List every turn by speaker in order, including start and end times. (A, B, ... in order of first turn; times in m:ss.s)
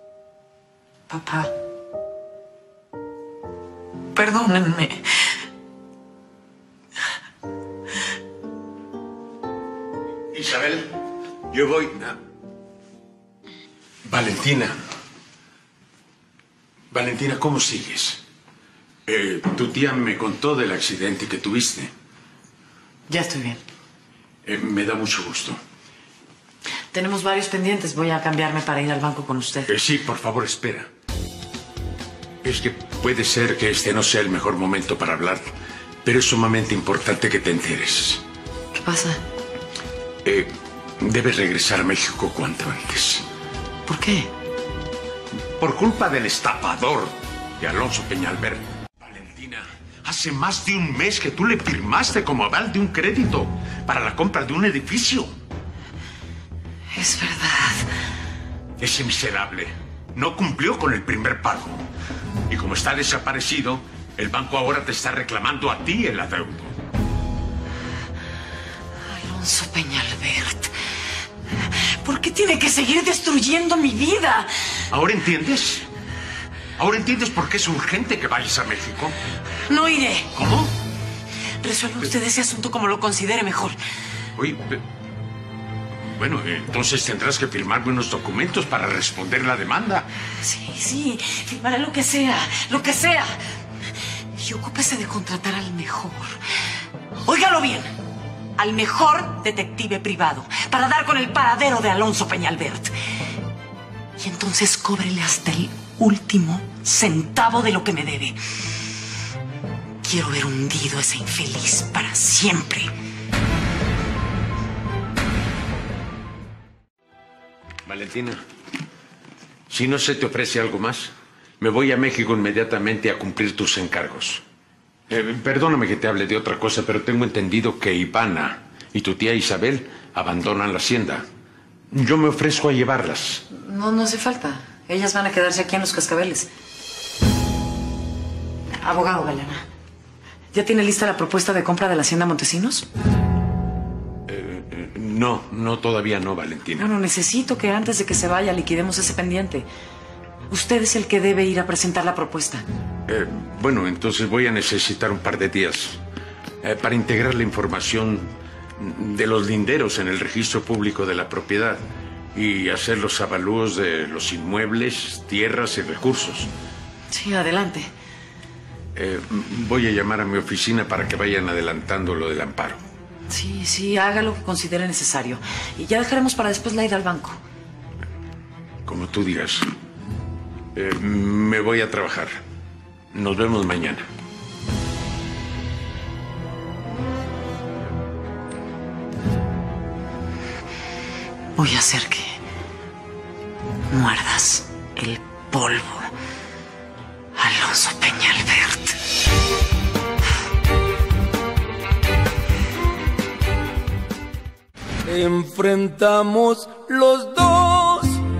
0:01.1-0:01.5 A
0:04.1-0:05.4 A
0:10.3-0:10.9 B
0:11.5-0:12.2 B
0:14.0-0:14.8 B
0:16.9-0:18.2 B
0:19.0-0:21.9 B
0:23.1-0:23.6 A
0:24.4-0:25.6 B
0:26.9-0:29.7 A
0:29.7-0:30.9 B
0:32.4-0:35.5 B
0:36.0-0:38.2 B
0:38.7-0:39.2 A
0:40.2-0:43.2 B
0:43.8-0:44.3 A
0:45.6-0:55.3 B
0:56.9-0:57.9 A
0:58.8-1:01.8 B
1:02.5-1:06.8 B
1:09.0-1:10.7 A
1:11.6-1:14.8 A
1:14.9-1:15.8 B
1:16.8-1:19.2 B
1:19.7-1:20.3 A
1:20.3-1:20.7 B
1:21.6-1:23.8 A
1:24.4-1:24.8 B
1:26.1-1:30.1 B
1:30.4-1:33.4 A
1:34.3-1:36.4 A
1:37.2-1:37.9 A
1:38.6-1:42.9 A
1:44.2-1:48.4 A
1:50.0-1:52.9 A
1:57.8-1:58.4 B
1:59.7-2:04.4 B
2:05.1-2:11.2 B
2:11.9-2:13.4 B
2:13.5-2:16.5 A
2:18.8-2:19.6 A
2:20.5-2:22.9 A
2:24.3-2:26.9 B
2:26.8-2:29.7 A
2:30.5-2:32.6 A
2:33.1-2:36.0 B
2:36.6-2:46.5 B
2:47.1-2:47.9 A
2:48.9-2:52.8 B
2:53.3-2:57.4 A
2:58.8-2:59.7 B
3:00.7-3:02.4 B
3:03.1-3:04.1 B
3:11.6-3:12.4 A
3:13.9-3:16.1 A
3:17.4-3:19.0 A
3:25.0-3:28.2 C